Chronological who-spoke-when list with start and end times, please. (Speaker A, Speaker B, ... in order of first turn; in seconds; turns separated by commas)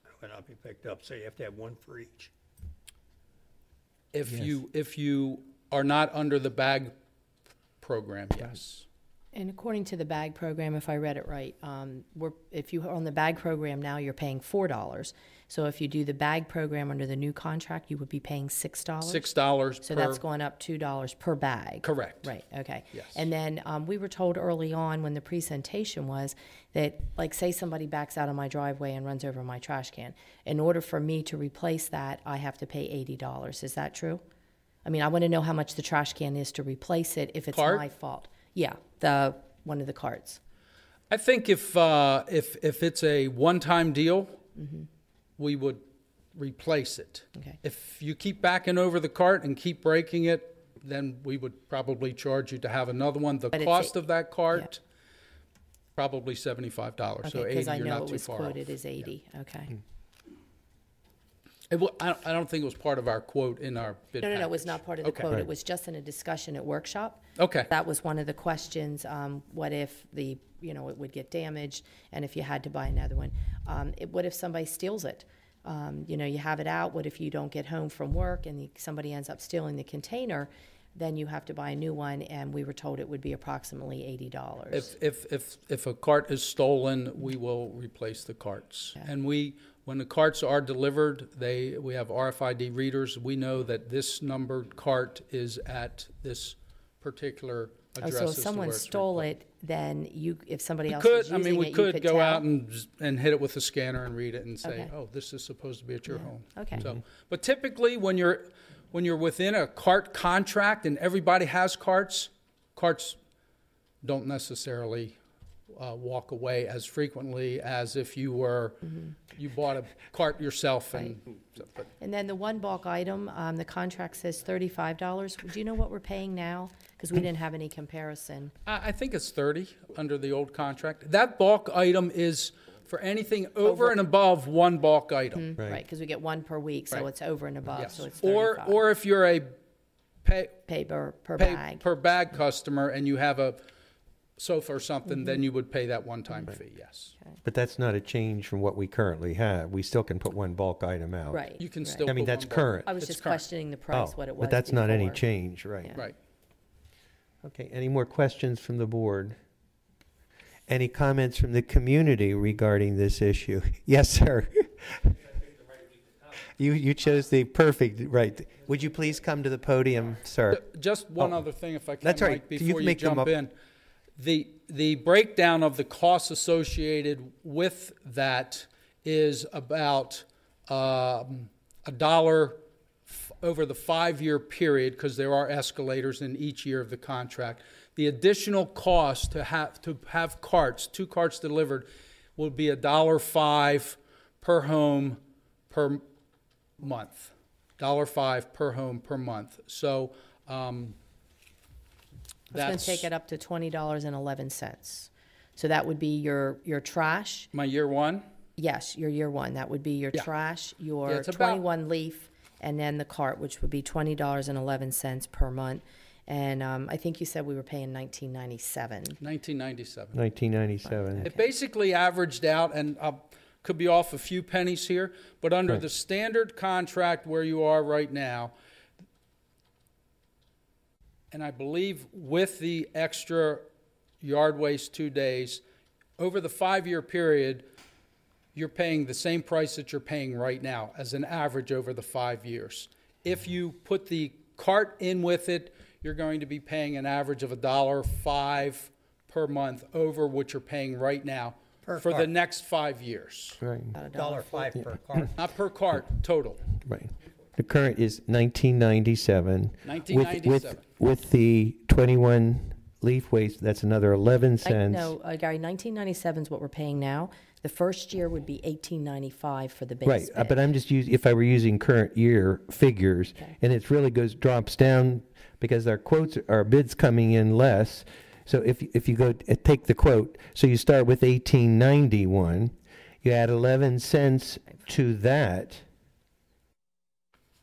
Speaker A: 0.2-2.3, Speaker B: 4.1-6.9, Speaker B: 7.8-8.9, Speaker C: 9.3-19.3, Speaker B: 19.0-20.2, Speaker C: 19.8-34.2, Speaker B: 21.8-22.3, Speaker B: 22.9-23.2, Speaker C: 34.9-40.4, Speaker B: 37.5-37.8, Speaker B: 41.1-44.4, Speaker C: 44.5-44.9, Speaker B: 45.4-45.8, Speaker B: 46.4-54.8, Speaker C: 53.5-54.0, Speaker B: 56.0-58.7, Speaker C: 57.2-59.8, Speaker B: 61.7-65.3, Speaker C: 64.2-84.9, Speaker B: 67.4-67.7, Speaker B: 84.7-99.3, Speaker C: 98.0-102.4, Speaker B: 100.9-113.2, Speaker C: 104.6-104.9, Speaker C: 106.1-106.9, Speaker B: 114.0-115.2, Speaker B: 115.7-121.9, Speaker C: 118.9-119.1, Speaker C: 122.0-128.5, Speaker B: 128.7-135.5, Speaker C: 133.7-133.9, Speaker C: 135.3-138.8, Speaker B: 137.7-139.5, Speaker B: 140.2-140.6, Speaker C: 140.7-141.8, Speaker B: 141.4-143.6, Speaker B: 144.4-147.1, Speaker D: 147.4-151.4, Speaker C: 151.3-152.1, Speaker B: 151.6-153.4, Speaker D: 152.0-152.9, Speaker C: 152.8-155.2, Speaker D: 153.9-156.0, Speaker D: 157.4-159.3, Speaker D: 160.7-165.2, Speaker D: 166.3-170.6, Speaker B: 170.5-173.5, Speaker D: 171.2-171.4, Speaker D: 172.0-173.3, Speaker B: 174.2-196.0, Speaker B: 196.8-201.0, Speaker C: 202.5-207.5, Speaker B: 202.5-203.1, Speaker B: 207.5-208.3, Speaker C: 208.6-219.2, Speaker B: 211.1-211.6, Speaker B: 219.2-220.2, Speaker D: 220.1-221.3, Speaker C: 220.8-221.5, Speaker B: 221.2-228.5, Speaker B: 231.3-233.7, Speaker B: 234.2-235.6, Speaker B: 236.2-237.6, Speaker B: 238.5-253.6, Speaker A: 251.8-252.3, Speaker D: 253.6-253.9, Speaker C: 253.9-254.6, Speaker A: 254.1-255.4, Speaker B: 255.3-256.6, Speaker D: 256.8-265.1, Speaker B: 259.8-260.8, Speaker C: 264.6-270.6, Speaker D: 270.1-285.8